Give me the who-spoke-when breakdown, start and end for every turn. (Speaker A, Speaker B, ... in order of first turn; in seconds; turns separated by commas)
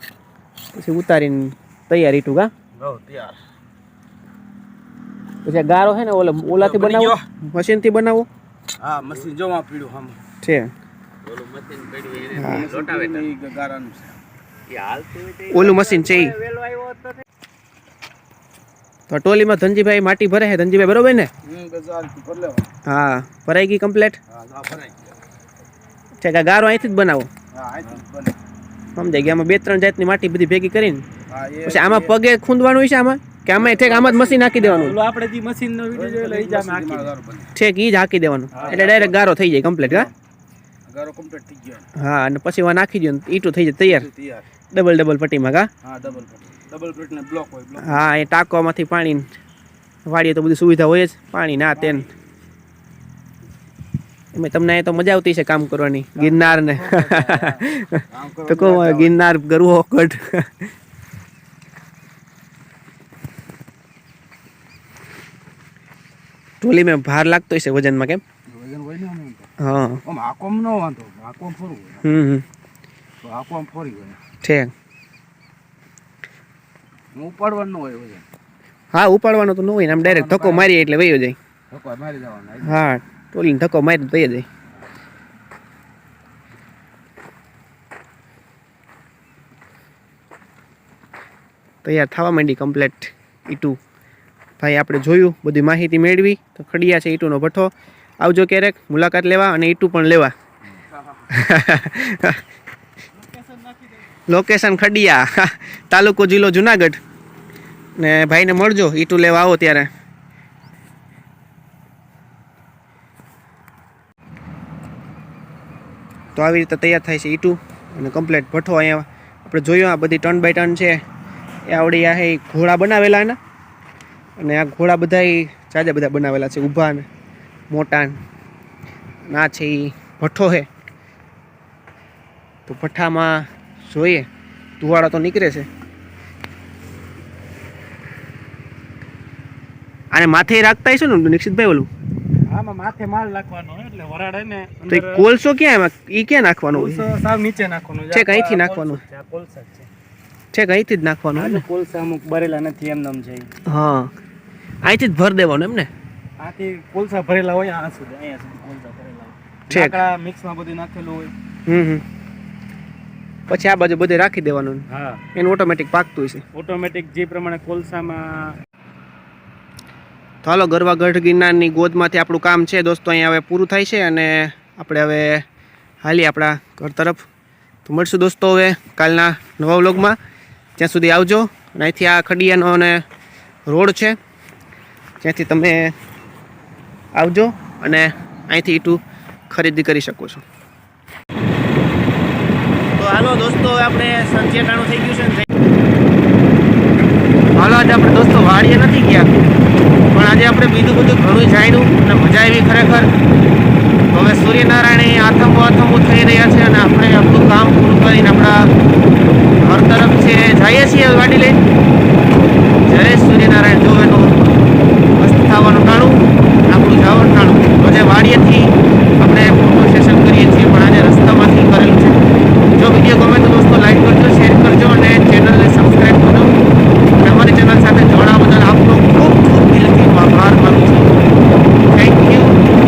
Speaker A: 0.7-2.5, Speaker B: 2.8-3.4, Speaker A: 5.4-8.3, Speaker B: 6.5-7.2, Speaker B: 8.8-10.2, Speaker A: 10.4-10.7, Speaker C: 11.2-13.3, Speaker A: 12.3-12.7, Speaker B: 12.4-14.1, Speaker C: 14.7-15.5, Speaker D: 15.4-17.2, Speaker A: 15.5-16.4, Speaker A: 19.1-21.3, Speaker B: 21.4-22.7, Speaker A: 22.9-24.2, Speaker B: 24.3-25.1, Speaker A: 26.2-27.3, Speaker B: 27.5-28.4, Speaker A: 28.9-31.0, Speaker B: 31.3-32.1, Speaker A: 31.6-35.0, Speaker B: 33.5-34.8, Speaker D: 34.6-37.1, Speaker B: 35.9-37.5, Speaker A: 37.5-40.1, Speaker D: 38.5-38.8, Speaker B: 38.6-39.2, Speaker B: 40.9-41.9, Speaker A: 42.0-44.1, Speaker B: 43.8-44.5, Speaker A: 44.7-45.7, Speaker B: 45.8-48.0, Speaker A: 47.8-49.3, Speaker A: 50.0-52.1, Speaker A: 54.3-60.7, Speaker D: 56.2-57.6, Speaker B: 58.1-59.2, Speaker A: 66.6-68.2, Speaker B: 68.5-69.5, Speaker A: 69.6-70.0, Speaker B: 70.0-72.1, Speaker A: 72.0-72.4, Speaker B: 73.2-74.2, Speaker A: 74.4-74.7, Speaker B: 77.1-78.2, Speaker A: 78.9-81.4, Speaker B: 80.0-80.7, Speaker B: 81.7-82.8, Speaker A: 82.6-84.5, Speaker A: 91.8-93.8, Speaker A: 94.6-100.3, Speaker B: 100.9-101.2, Speaker A: 101.3-102.4, Speaker B: 103.4-103.9, Speaker A: 104.3-107.0, Speaker A: 108.0-109.9, Speaker A: 116.3-121.0, Speaker A: 121.7-123.4, Speaker A: 124.4-127.0, Speaker A: 127.7-128.2, Speaker A: 129.3-130.7, Speaker A: 132.7-134.3, Speaker A: 134.8-135.7, Speaker A: 140.1-141.9, Speaker D: 142.4-145.2, Speaker A: 144.9-147.1, Speaker D: 146.7-149.9, Speaker A: 148.1-149.0, Speaker A: 150.5-151.6, Speaker D: 151.3-153.5, Speaker A: 153.7-154.1, Speaker A: 154.8-155.9, Speaker D: 156.4-161.3, Speaker A: 159.7-160.0, Speaker A: 161.7-162.0, Speaker A: 163.5-166.4, Speaker D: 164.9-165.2, Speaker D: 166.5-168.6, Speaker A: 170.4-175.4, Speaker A: 176.0-177.2, Speaker A: 177.8-180.2, Speaker A: 180.8-183.0, Speaker A: 183.7-184.2, Speaker A: 185.2-185.9, Speaker A: 187.2-190.4, Speaker A: 192.9-195.4, Speaker A: 197.5-199.3, Speaker A: 200.1-203.1, Speaker A: 204.1-208.7, Speaker A: 209.6-211.6, Speaker A: 212.9-214.5, Speaker A: 215.2-222.2, Speaker A: 222.8-226.6, Speaker A: 227.2-231.1, Speaker A: 231.9-232.6